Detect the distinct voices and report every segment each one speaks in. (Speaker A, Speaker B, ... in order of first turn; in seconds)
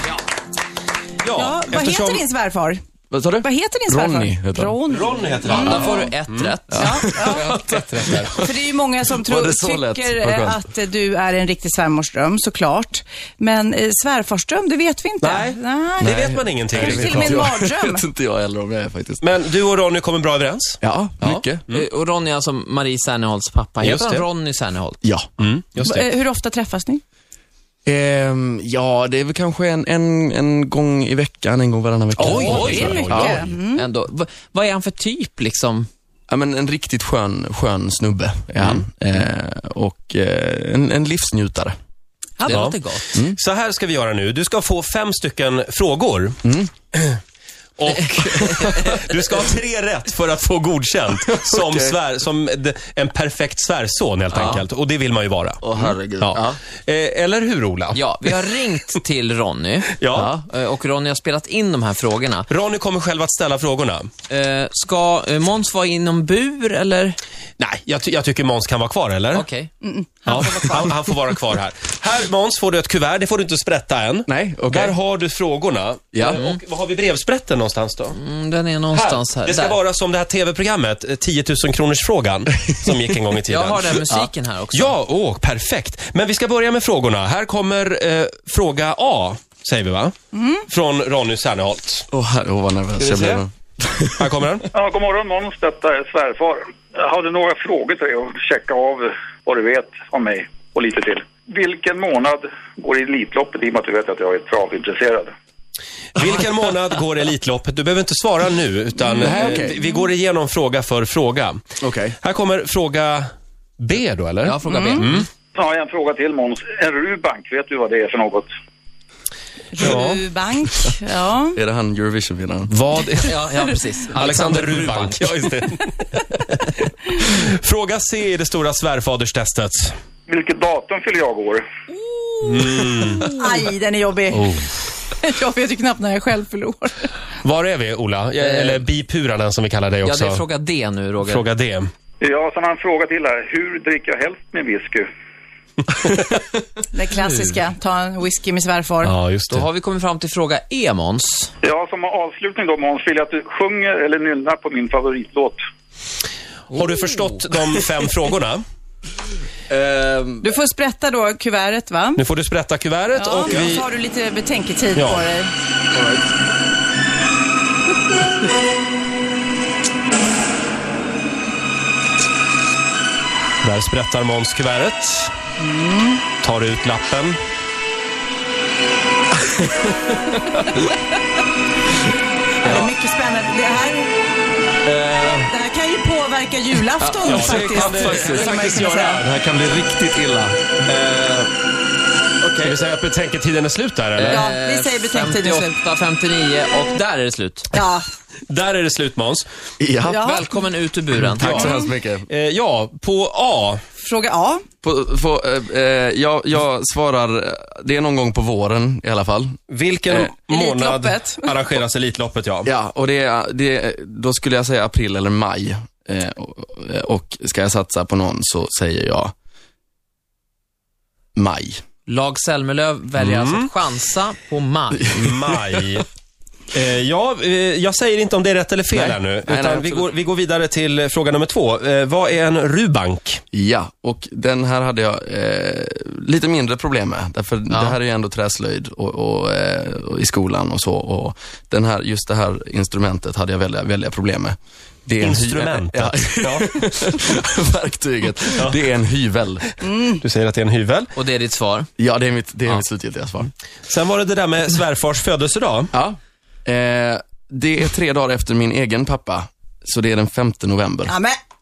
Speaker A: 1.2-2.2, 4.9-6.5, 7.4-8.3, 15.2-17.4, 19.2-20.8, 23.8-24.3, 25.4-26.1, 32.2-33.5, 42.5-46.4, 46.9-47.2, 47.8-55.6, 56.2-58.0, 60.0-60.4, 62.5-64.1, 67.6-69.5, 70.3-78.2, 78.9-84.2, 84.7-90.1, 90.7-92.1, 94.2-94.7, 106.2-111.6, 112.2-115.3, 119.8-120.2, 122.7-123.4, 124.2-126.5, 127.1-130.0, 132.4-133.3, 137.4-140.4, 141.2-141.9, 149.0-149.7, 156.7-158.6, 162.2-163.9, 164.9-165.3, 173.6-175.3, 176.4-177.4, 187.2-189.2, 190.9-191.5, 192.6-194.5, 198.5-199.5, 201.3-203.8, 209.7-212.7, 223.2-223.7, 225.2-226.1, 226.7-233.4, 245.2-246.8, 248.6-248.8, 250.2-251.1, 253.9-255.9
Speaker B: 1.3-2.8, 3.4-6.0, 6.8-7.6, 8.3-16.1, 16.7-18.0, 25.8-27.0, 32.6-33.9, 69.8-70.9, 90.3-90.6, 114.7-115.1, 119.7-121.6, 132.1-137.1, 146.9-149.1, 160.4-162.2, 163.2-165.5, 175.6-176.2, 182.6-184.1, 185.4-189.2, 194.3-195.7, 197.7-198.1, 200.1-200.5, 201.5-201.9, 204.0-204.6, 210.5-211.5, 249.8-250.2, 261.1-261.4
Speaker C: 3.1-4.8, 6.7-8.6, 9.1-10.6, 16.0-19.3, 20.8-21.6, 25.0-25.3, 27.9-33.5, 36.3-41.8, 46.4-46.7, 51.3-52.0, 55.6-56.4, 74.3-75.0, 76.1-76.4, 92.1-94.3, 109.2-109.8, 111.8-112.2, 121.5-122.7, 159.7-160.5, 165.9-166.3, 179.4-180.9, 184.8-185.5, 187.0-190.6, 192.4-192.8, 199.8-200.2, 201.2-202.3, 204.8-209.6, 212.7-219.3, 221.4-221.8, 225.2-225.8, 228.9-230.1, 233.5-249.8, 252.0-253.5, 255.9-261.2
Speaker D: 5.5-7.0, 21.2-25.0, 32.2-35.9, 42.4-43.2, 54.3-54.6, 57.9-62.5, 64.3-67.2, 69.3-69.7, 76.2-76.6, 78.1-79.8, 83.5-85.0, 114.4-115.3, 123.2-125.3, 138.4-138.9, 140.0-141.5, 147.1-147.6, 149.5-151.5, 156.7-157.4, 194.2-197.7, 200.2-201.6, 222.1-225.2, 251.2-251.9
Speaker E: 94.7-105.3, 115.5-118.5, 130.3-131.7, 142.2-145.1, 151.6-155.6